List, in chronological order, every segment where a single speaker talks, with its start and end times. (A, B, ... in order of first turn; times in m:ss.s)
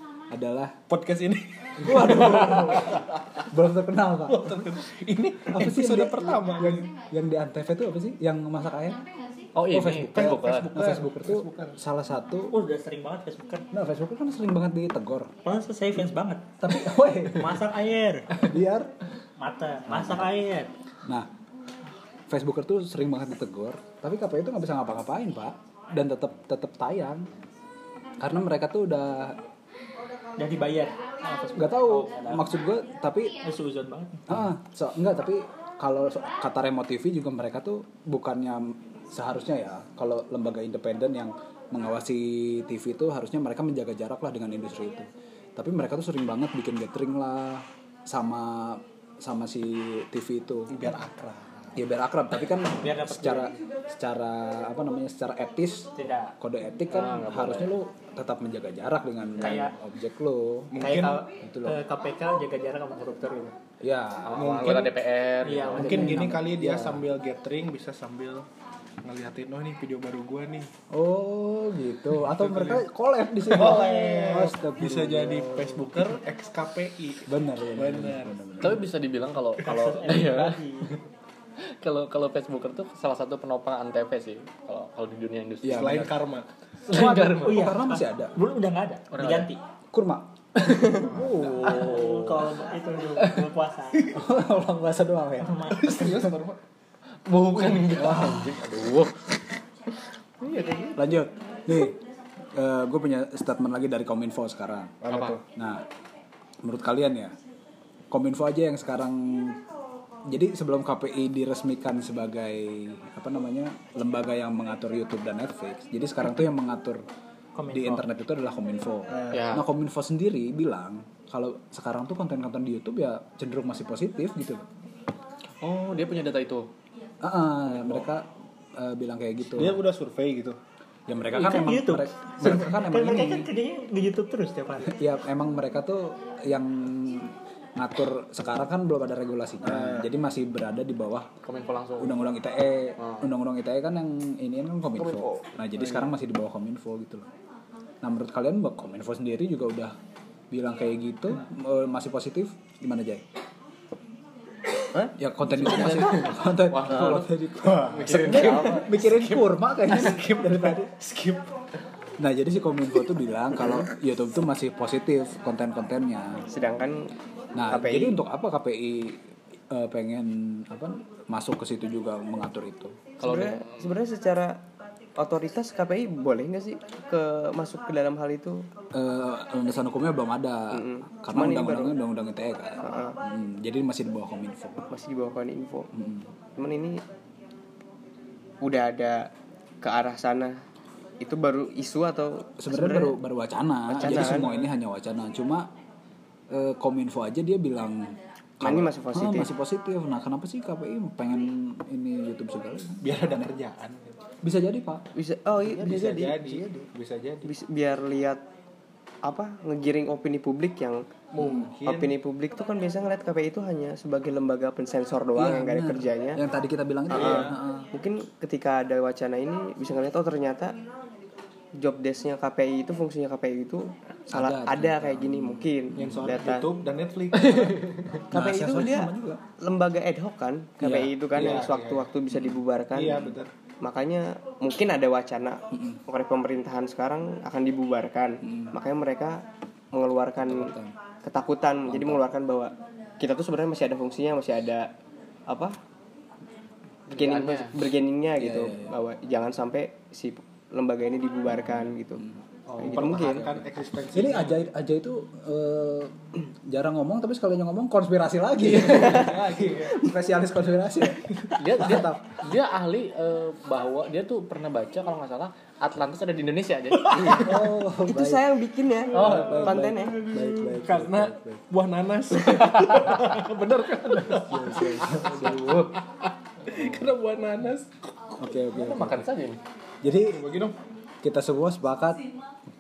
0:00.3-0:00.8 A
0:00.9-0:03.0 B
0:01.8-0:04.7 A
0:04.3-0:06.9 B
0:05.5-0:09.0 A
0:09.6-0:10.8 C
0:09.7-0:12.5 A
0:10.1-0:11.8 B
0:12.5-0:13.7 D
0:13.7-0:15.3 A
0:15.4-0:16.5 D
0:16.6-0:17.7 A
0:17.3-0:18.3 D
0:18.4-0:18.9 A
0:19.4-0:20.7 D
0:19.9-0:20.3 A
0:22.3-0:27.3 A
0:28.2-0:29.4 A
0:30.4-0:32.5 D
0:31.6-0:33.4 A
0:33.4-0:34.3 D
0:34.3-0:50.7 A
0:50.7-0:51.8 B
0:51.8-1:00.7 A
0:52.8-0:53.5 D
0:56.0-0:56.4 D
0:56.9-0:57.7 C
0:59.4-0:59.8 D
1:00.7-1:01.3 B
1:00.8-1:03.6 D
1:01.4-1:01.8 A
1:03.8-1:04.6 A
1:04.3-1:06.3 C
1:04.3-1:04.9 B
1:05.4-1:06.9 D
1:05.7-1:08.5 B
1:05.9-1:07.0 A
1:09.0-1:10.7 B
1:10.9-1:16.0 A
1:12.3-1:12.8 B
1:13.4-1:18.5 B
1:13.7-1:14.4 D
1:17.3-1:18.8 A
1:18.6-1:21.0 C
1:19.6-1:21.0 D
1:21.6-1:26.1 C
1:25.6-1:26.1 A
1:25.6-1:26.5 B
1:26.9-1:27.8 C
1:26.9-1:28.4 A
1:27.0-1:29.6 D
1:29.1-1:29.5 C
1:29.9-1:31.9 A
1:30.6-1:32.6 C
1:30.8-1:31.4 B
1:31.4-1:34.1 D
1:34.1-1:36.3 A
1:35.4-1:36.0 D
1:35.7-1:36.6 B
1:37.3-1:39.4 C
1:37.9-1:38.6 A
1:41.0-1:42.0 A
1:42.5-1:45.0 A
1:45.0-1:45.4 B
1:45.1-1:45.4 C
1:45.6-1:45.8 A
1:46.6-1:47.4 A
1:48.1-1:49.6 A
1:50.3-1:57.0 A
1:57.6-1:58.1 D
1:57.7-2:04.7 A
1:59.1-1:59.4 B
1:59.3-1:59.7 C
2:05.6-2:06.7 C
2:07.2-2:09.8 A
2:09.5-2:10.6 B
2:11.1-2:13.5 A
2:11.3-2:15.0 D
2:14.8-2:21.3 A
2:19.6-2:20.1 B
2:21.4-2:22.3 C
2:22.0-2:27.3 A
2:23.0-2:23.3 C
2:25.0-2:25.4 E
2:28.0-2:30.0 A
2:30.5-2:33.2 A
2:35.2-2:40.9 A
2:35.5-2:39.6 C
2:35.8-2:36.2 E
2:40.0-2:41.5 B
2:42.2-2:46.5 A
2:46.5-2:47.1 E
2:47.6-2:53.0 A
2:47.7-2:48.2 E
2:53.2-2:53.9 C
2:53.2-2:54.6 E
2:55.2-2:58.7 E
2:58.9-3:04.9 A
3:00.7-3:02.0 E
3:02.8-3:03.2 E
3:04.9-3:05.9 E
3:05.9-3:06.3 A
3:06.6-3:07.0 E
3:08.6-3:09.3 E
3:09.8-3:10.6 E
3:11.2-3:13.2 E
3:12.6-3:15.7 A
3:13.9-3:14.5 E
3:14.1-3:14.5 B
3:16.5-3:23.5 A
3:18.6-3:19.5 E
3:23.0-3:24.2 B
3:24.4-3:25.0 A
3:25.2-3:26.9 E
3:25.7-3:27.5 B
3:27.4-3:28.4 E
3:29.2-3:36.4 E
3:31.3-3:32.2 B
3:35.3-3:37.9 A
3:37.1-3:40.8 E
3:37.1-3:37.6 B
3:41.8-3:46.7 E
3:44.3-3:46.3 A
3:46.0-3:47.9 B
3:47.4-3:48.2 C
3:48.3-4:04.9 E
3:48.3-3:49.4 A
3:50.8-3:51.6 A
3:51.3-3:52.1 B
3:52.3-3:52.6 A
3:52.9-3:53.5 B
3:55.7-3:56.0 A
3:58.4-3:58.7 A
4:00.4-4:01.0 A
4:01.9-4:02.2 A
4:05.5-4:05.8 E
4:07.1-4:12.2 E
4:07.1-4:07.8 C
4:08.4-4:08.9 A
4:12.2-4:13.6 A
4:12.7-4:13.0 C
4:12.8-4:14.7 B
4:12.8-4:13.5 E
4:14.1-4:22.3 A
4:18.7-4:19.3 E
4:18.8-4:20.1 B
4:21.6-4:27.7 C
4:27.1-4:30.4 E
4:27.3-4:28.5 A
4:29.1-4:29.9 C
4:29.2-4:31.6 A
4:29.2-4:36.0 B
4:32.5-4:36.0 C
4:34.3-4:35.8 A
4:36.6-4:38.0 B
4:38.4-4:39.3 A
4:38.7-4:39.6 C
4:40.0-4:40.4 A
4:40.2-4:40.8 B
4:41.2-4:42.3 A